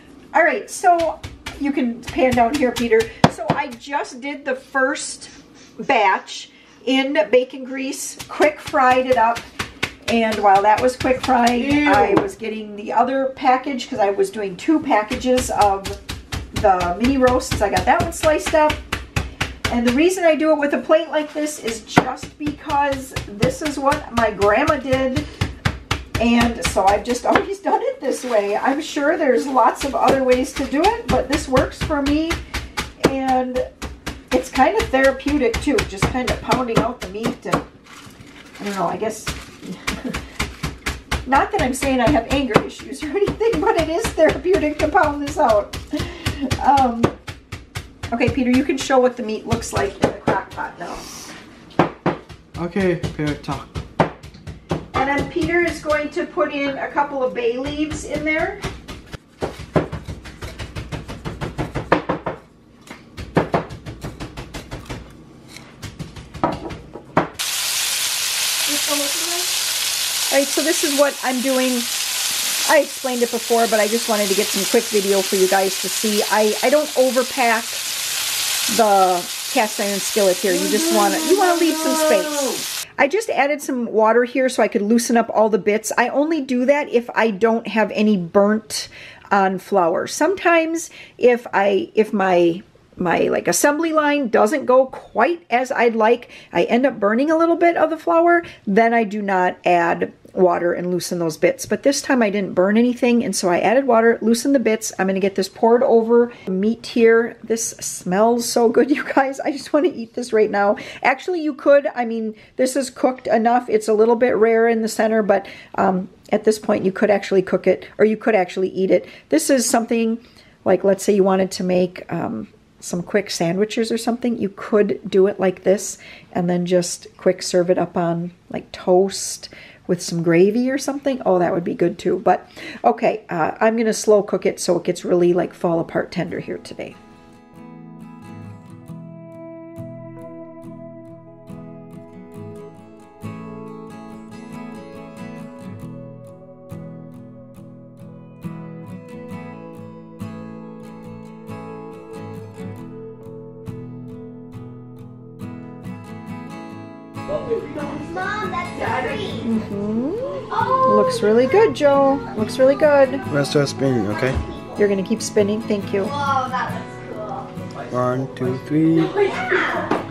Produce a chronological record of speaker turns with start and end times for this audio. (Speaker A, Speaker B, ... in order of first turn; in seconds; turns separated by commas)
Speaker A: 0.3-9.5, Speaker A: 10.1-16.0, Speaker B: 11.8-12.1, Speaker A: 16.5-18.8, Speaker A: 19.7-25.3, Speaker A: 26.2-32.4, Speaker A: 33.0-33.6, Speaker A: 34.3-37.6, Speaker A: 38.6-40.2, Speaker A: 41.3-47.1, Speaker A: 48.1-51.1, Speaker B: 52.6-53.7, Speaker A: 54.9-58.6, Speaker A: 70.3-71.9, Speaker A: 72.6-77.9, Speaker A: 78.7-136.9, Speaker B: 80.6-82.6, Speaker C: 157.5-159.5, Speaker A: 159.4-163.2, Speaker C: 160.5-163.3, Speaker B: 163.3-164.4, Speaker C: 164.0-164.8, Speaker A: 164.8-166.1, Speaker C: 166.0-167.5, Speaker B: 167.9-169.3, Speaker C: 169.0-170.0